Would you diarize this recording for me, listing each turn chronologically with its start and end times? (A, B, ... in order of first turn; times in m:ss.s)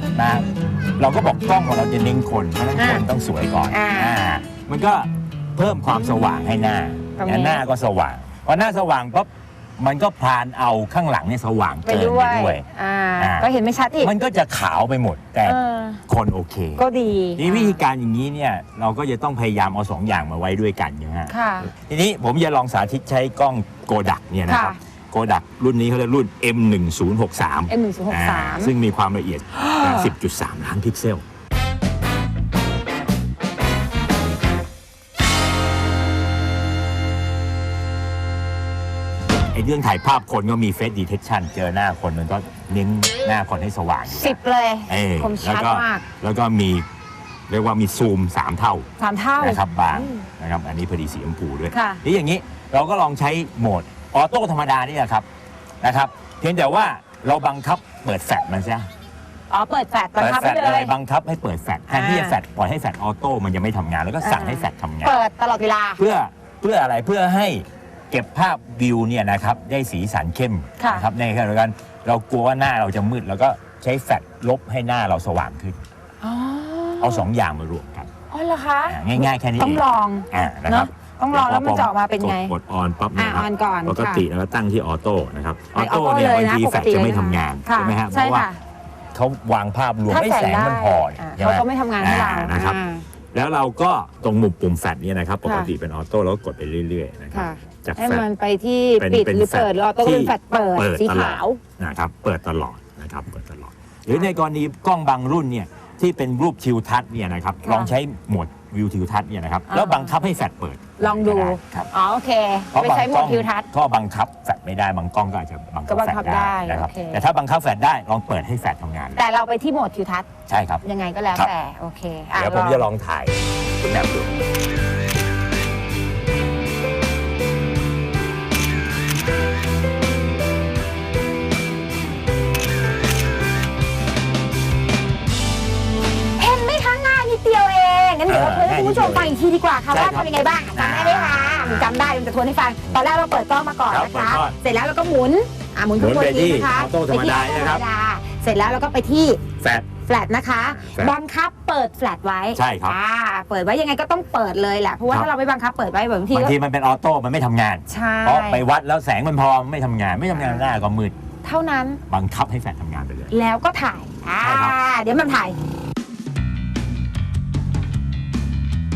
0:00.2-0:00.5 A
0:01.0-0:12.6 A
0:02.8-0:03.1 B
0:03.7-0:04.2 B
0:07.2-0:07.6 B
0:11.8-0:14.1 B
0:13.2-0:13.5 A
0:14.0-0:16.8 A
0:15.4-0:16.0 B
0:16.8-0:17.8 B
0:17.4-0:31.2 A
0:21.3-0:21.7 B
0:24.5-0:24.8 B
0:27.7-0:28.7 B
0:29.6-0:30.1 B
0:39.5-0:46.9 A
0:44.1-0:46.0 B
0:47.5-0:48.9 A
0:49.0-0:50.2 B
0:49.4-0:55.3 A
0:51.7-0:52.0 B
0:55.8-0:58.9 A
0:59.5-1:01.0 B
1:00.2-1:05.2 A
1:01.9-1:02.4 B
1:04.2-1:06.0 B
1:06.0-1:15.8 A
1:10.8-1:11.1 B
1:16.2-1:17.3 B
1:17.0-1:18.1 A
1:18.3-1:22.5 B
1:18.9-1:28.5 A
1:23.2-1:24.3 B
1:25.8-1:28.6 B
1:29.1-1:32.8 A
1:30.1-1:33.0 B
1:33.3-1:38.2 A
1:35.4-1:35.7 B
1:37.3-1:41.6 B
1:39.0-1:51.9 A
1:47.6-1:47.9 B
1:49.7-1:50.2 B
1:51.0-1:53.7 B
1:52.7-1:59.2 A
1:55.9-1:57.2 B
1:59.2-2:00.3 B
2:00.5-2:01.5 A
2:00.8-2:02.8 B
2:02.3-2:04.4 A
2:16.4-2:29.4 B
2:18.3-2:19.3 A
2:19.9-2:21.9 A
2:23.9-2:24.6 A
2:26.0-2:27.8 A
2:29.6-2:29.9 A
2:30.0-2:36.6 B
2:30.7-2:31.2 A
2:32.6-2:33.0 A
2:36.3-2:41.2 A
2:37.9-2:38.6 B
2:40.3-2:40.7 B
2:41.4-2:42.0 B
2:42.1-2:43.3 A
2:43.3-2:45.6 B
2:44.4-2:44.8 A